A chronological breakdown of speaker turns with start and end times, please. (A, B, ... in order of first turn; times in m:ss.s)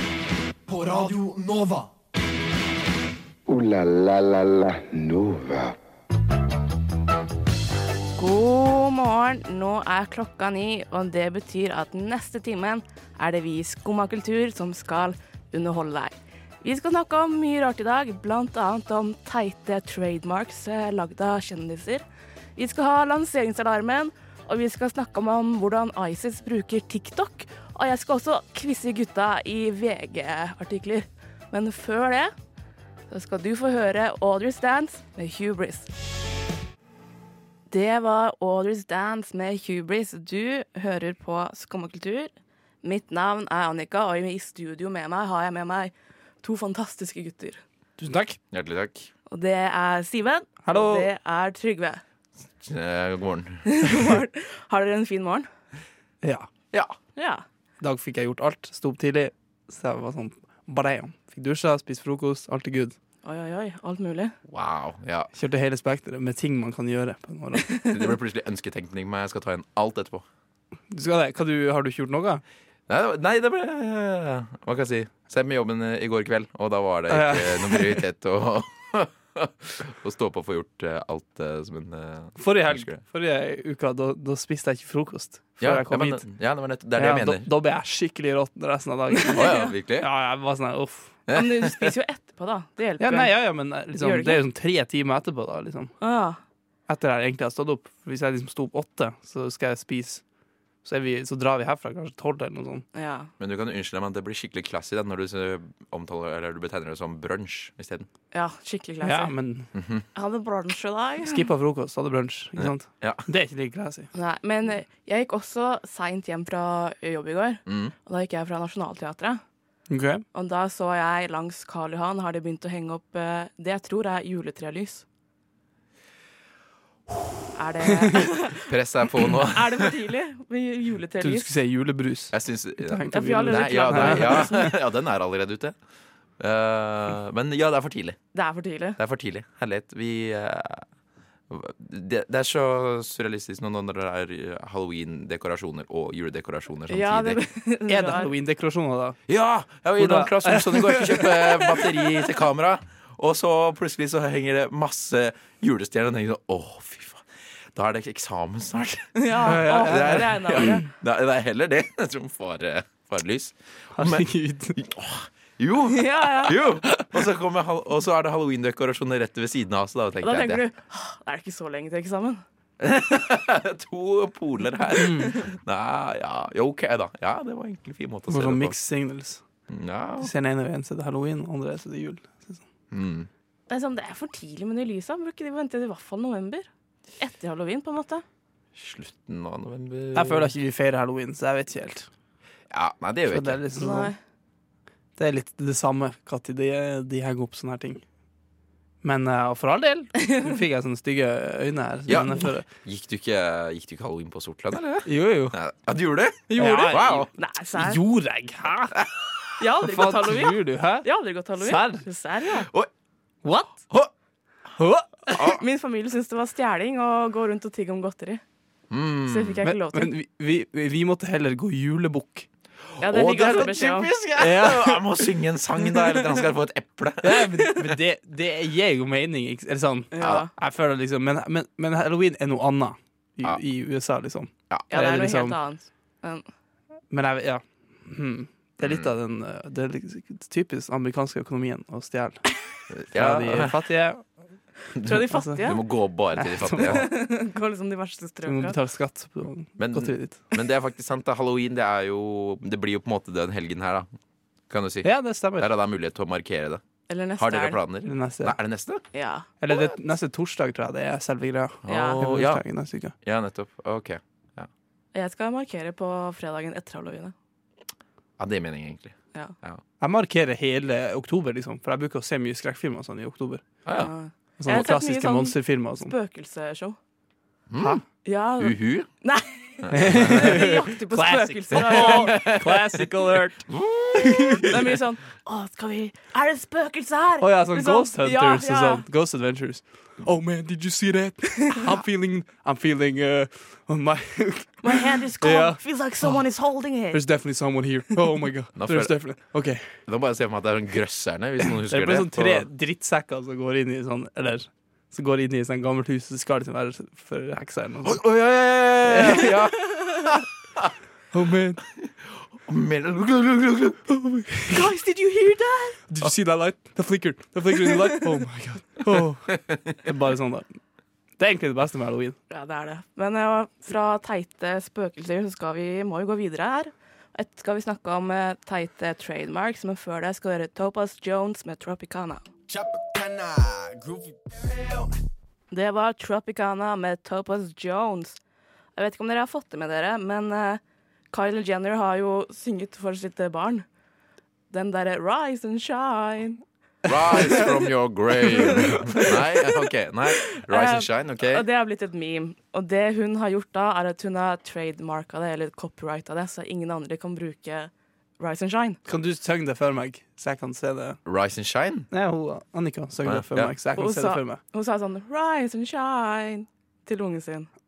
0:00.7-0:01.9 A
0:03.5-0:05.7 B
0:08.2-0:22.0 C
0:22.6-0:32.3 C
0:33.1-0:35.9 C
0:37.7-0:47.6 C
0:48.0-0:48.4 D
0:48.5-0:49.1 E
0:49.3-0:52.0 C
0:50.6-0:51.1 D
0:52.6-0:53.9 E
0:53.6-0:55.5 C
0:56.2-0:56.5 D
0:57.2-0:57.4 C
0:57.8-1:02.9 D
1:03.2-1:04.3 C
1:04.5-1:05.3 E
1:05.3-1:07.7 D
1:07.6-1:07.9 C
1:07.9-1:10.2 E
1:10.9-1:12.4 D
1:12.9-1:23.0 E
1:17.1-1:18.0 D
1:22.4-1:26.3 D
1:25.6-1:27.5 E
1:27.0-1:31.2 D
1:29.3-1:29.7 C
1:29.4-1:30.1 E
1:31.3-1:31.9 E
1:31.3-1:34.4 C
1:33.0-1:35.9 D
1:36.0-1:36.4 C
1:36.9-1:40.2 D
1:40.8-1:42.8 D
1:42.9-1:43.3 C
1:43.4-1:48.1 E
1:48.3-1:49.3 C
1:49.0-1:49.7 D
1:49.7-1:50.0 E
1:50.1-1:51.5 C
1:51.2-1:54.1 D
1:52.6-1:53.2 E
1:54.1-1:59.4 C
1:57.6-1:57.9 E
1:59.9-2:00.2 D
2:00.3-2:05.0 C
2:07.5-2:08.7 C
2:08.6-2:10.0 E
2:09.4-2:11.5 C
2:11.2-2:14.7 D
2:12.3-2:15.7 E
2:13.1-2:14.7 C
2:16.4-2:18.2 E
2:18.3-2:19.0 C
2:19.0-2:20.8 E
2:21.5-2:27.4 E
2:26.9-2:28.3 C
2:27.9-2:29.2 D
2:29.3-2:50.6 E
2:30.0-2:31.2 D
2:39.2-2:40.8 C
2:39.4-2:40.7 D
2:43.9-2:44.8 D
2:45.9-2:46.6 C
2:50.2-2:52.4 C
2:52.8-2:58.8 E
2:55.0-2:55.3 D
2:58.3-2:59.4 D
2:59.7-3:00.3 E
3:00.2-3:02.6 D
3:02.9-3:03.3 E
3:03.7-3:06.7 C
3:07.2-3:08.2 C
3:08.7-3:10.5 E
3:10.1-3:12.1 D
3:12.7-3:13.6 E
3:13.3-3:14.1 D
3:13.8-3:14.2 C
3:15.2-3:18.0 D
3:19.0-3:22.6 D
3:20.2-3:20.5 C
3:22.1-3:27.3 E
3:25.0-3:25.6 D
3:26.5-3:28.0 C
3:26.6-3:29.0 D
3:29.0-3:29.2 E
3:29.6-3:32.7 C
3:29.8-3:31.1 D
3:31.6-3:32.0 D
3:33.4-3:33.8 D
3:34.8-3:35.4 D
3:35.3-3:35.6 E
3:35.4-3:38.4 C
3:38.9-3:39.6 E
3:39.2-3:40.1 C
3:39.6-3:42.4 D
3:43.0-3:47.9 E
3:43.0-3:44.1 C
3:44.4-3:45.0 D
3:47.2-3:55.6 D
3:50.1-3:50.5 C
3:50.2-3:50.4 E
3:54.9-3:56.4 C
3:57.1-4:02.4 D
3:58.8-3:59.1 E
4:02.9-4:03.7 E
4:03.1-4:04.2 D
4:05.0-4:07.1 E
4:05.0-4:05.8 C
4:05.3-4:05.6 D
4:06.4-4:07.0 D
4:06.8-4:08.8 C
4:08.4-4:10.4 D
4:09.8-4:14.1 E
4:14.7-4:16.8 E
4:15.0-4:15.7 D
4:17.1-4:17.8 C
4:17.4-4:19.0 E
4:18.0-4:18.6 D
4:19.1-4:19.5 C
4:19.6-4:23.1 D
4:21.8-4:22.6 E
4:21.9-4:22.2 C
4:23.2-4:24.7 E
4:25.1-4:27.3 C
4:28.4-4:29.8 E
4:30.0-4:33.6 D
4:33.8-4:34.1 E
4:34.0-4:37.0 C
4:34.6-4:36.1 D
4:37.7-4:38.0 E
4:38.2-4:42.4 C
4:38.6-4:39.1 E
4:39.8-4:40.6 E
4:39.9-4:43.7 D
4:41.7-4:43.0 E
4:43.7-4:44.8 E
4:44.3-4:44.7 D
4:44.6-4:49.0 C
4:47.4-4:56.4 D
4:54.8-4:57.2 C
4:57.1-4:59.9 D
4:58.7-4:59.2 E
5:00.0-5:02.7 E
5:01.9-5:08.2 D
5:08.0-5:10.9 E
5:09.1-5:09.5 D
5:11.3-5:11.8 D
5:12.0-5:14.3 E
5:14.3-5:14.8 D
5:14.7-5:16.0 C
5:16.1-5:20.7 D
5:21.4-5:22.4 D
5:22.5-5:32.5 C
5:32.7-5:34.4 A
5:35.7-5:38.4 C
5:39.0-5:40.8 C
5:41.3-5:43.8 C
5:44.7-5:46.6 C
5:47.0-5:51.6 E
5:48.5-5:49.7 C
5:50.6-5:59.0 C
5:59.0-6:01.2 D
6:01.2-6:02.1 E
6:02.1-6:04.6 D
6:03.2-6:03.7 E
6:04.0-6:07.7 C